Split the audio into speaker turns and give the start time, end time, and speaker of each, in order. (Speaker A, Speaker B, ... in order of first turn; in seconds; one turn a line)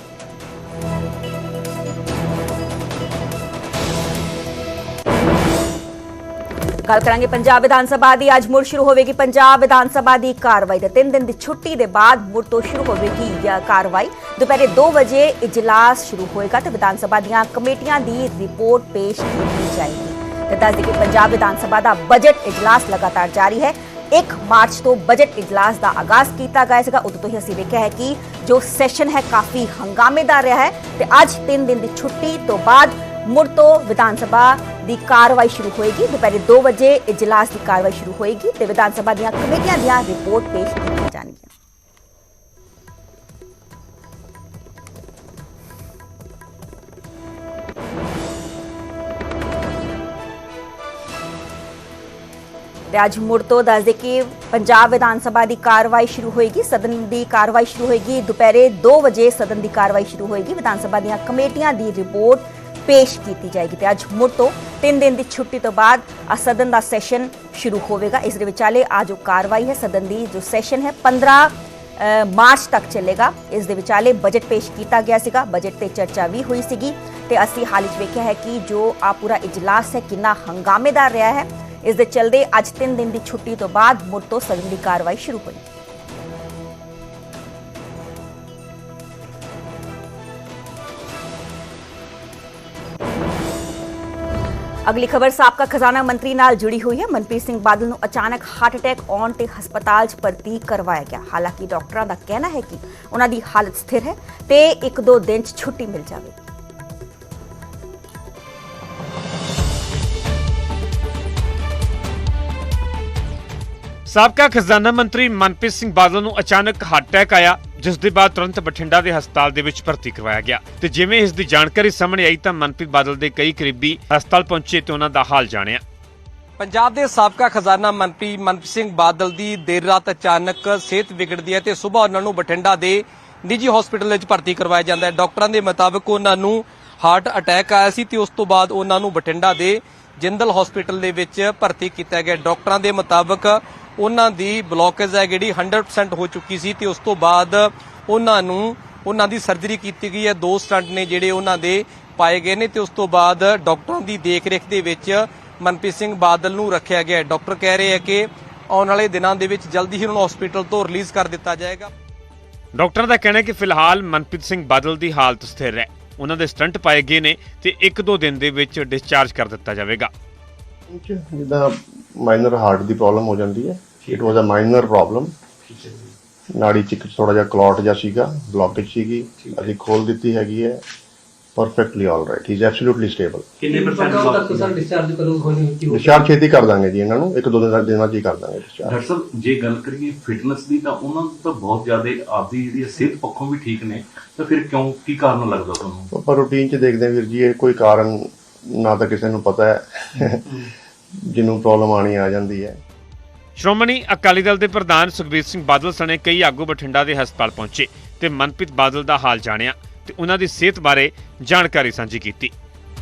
Speaker A: 6.9-41.5
Speaker A: 52.9-85.6
Speaker A: 94.9-106.4
Speaker B: 114.1-125.8
Speaker C: 126.6-161.9
Speaker B: 162.8-170.1
Speaker D: 170.9-175.3
Speaker D: 176.5-180.8
Speaker D: 181.6-183.5
Speaker E: 183.6-184.8
Speaker F: 183.8-186.1
Speaker D: 185.9-189.0
Speaker E: 188.9-196.1
Speaker D: 196.1-200.7
Speaker D: 201.3-202.8
Speaker B: 203.6-212.5